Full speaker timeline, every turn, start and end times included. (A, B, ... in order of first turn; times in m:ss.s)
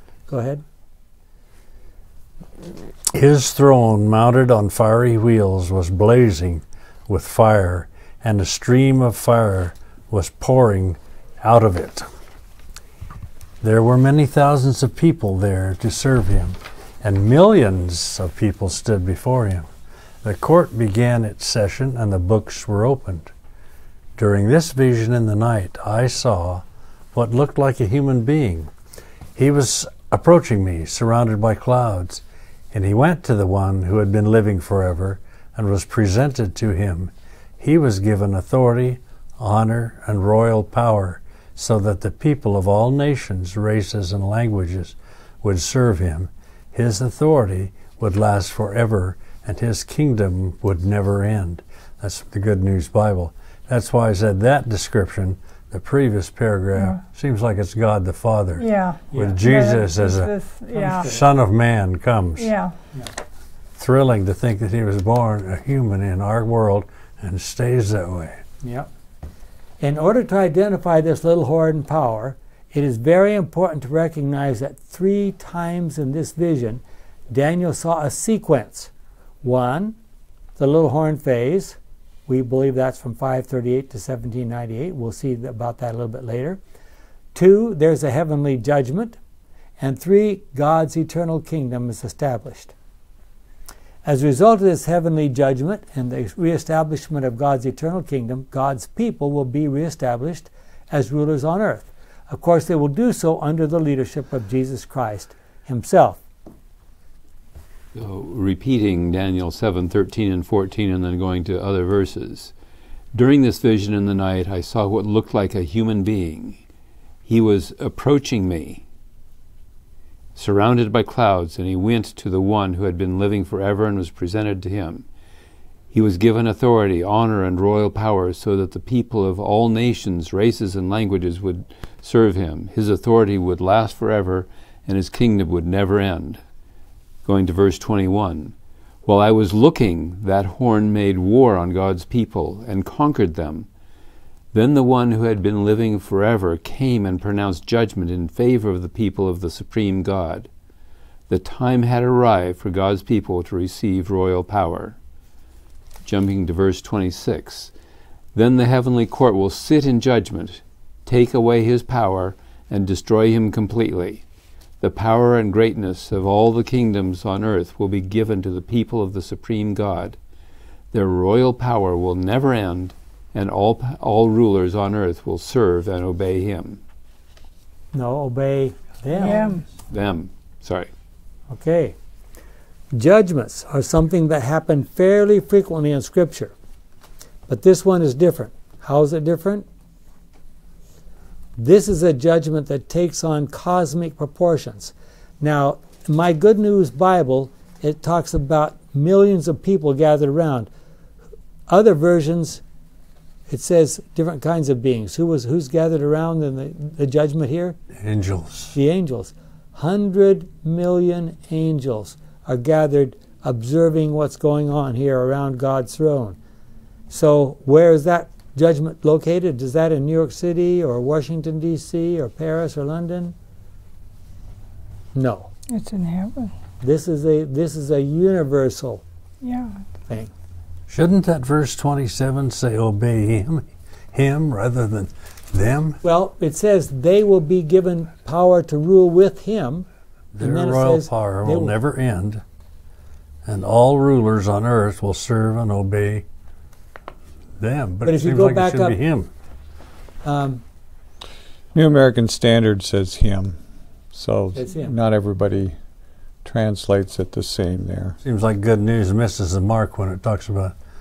0:00.3-0:00.6 A
0:03.1-0:12.1 B
0:13.6-0:19.7 B
0:20.2-0:23.3 B
0:24.2-0:28.7 B
0:29.3-1:00.3 B
0:56.7-0:57.0 C
0:58.6-1:01.2 C
0:59.1-0:59.4 A
1:00.7-1:01.3 A
1:01.0-1:02.5 B
1:02.4-1:02.7 C
1:03.8-1:08.4 B
1:08.6-1:08.9 A
1:09.8-1:18.9 A
1:19.4-1:20.0 A
1:20.6-1:26.6 A
1:27.3-1:29.2 A
1:29.8-1:32.7 A
1:34.0-1:46.2 A
1:47.9-1:52.5 D
1:53.1-1:56.6 D
1:57.2-1:58.8 D
2:00.4-2:05.0 D
2:05.9-2:16.4 D
2:17.2-2:18.5 D
2:19.0-2:23.7 D
2:24.5-2:30.5 D
2:31.3-2:35.0 D
2:36.0-2:37.7 D
2:38.3-2:44.2 D
2:44.8-2:50.2 D
2:50.9-2:56.8 D
2:57.9-2:59.6 A
2:59.1-2:59.6 C
2:59.9-3:00.9 D
3:01.5-3:01.9 A
3:02.9-3:06.5 A
3:07.5-3:09.7 A
3:11.6-3:20.7 A
3:21.7-3:22.6 A
3:23.5-3:27.8 A
3:28.0-3:28.7 B
3:28.7-3:36.4 A
3:37.1-3:43.3 A
3:45.1-3:45.5 A
3:45.7-3:46.5 C
3:46.8-3:49.0 A
3:49.4-3:49.8 C
3:50.9-3:56.0 B
3:56.0-3:59.9 A
4:00.3-4:02.4 B
4:00.4-4:01.7 A
4:03.4-4:06.2 B
4:07.6-4:09.3 B
4:08.0-4:09.0 A
4:10.2-4:10.6 A
4:11.7-4:13.6 E
4:14.1-4:15.8 E
4:14.5-4:14.9 A
4:16.4-4:18.2 E
4:18.2-4:20.7 B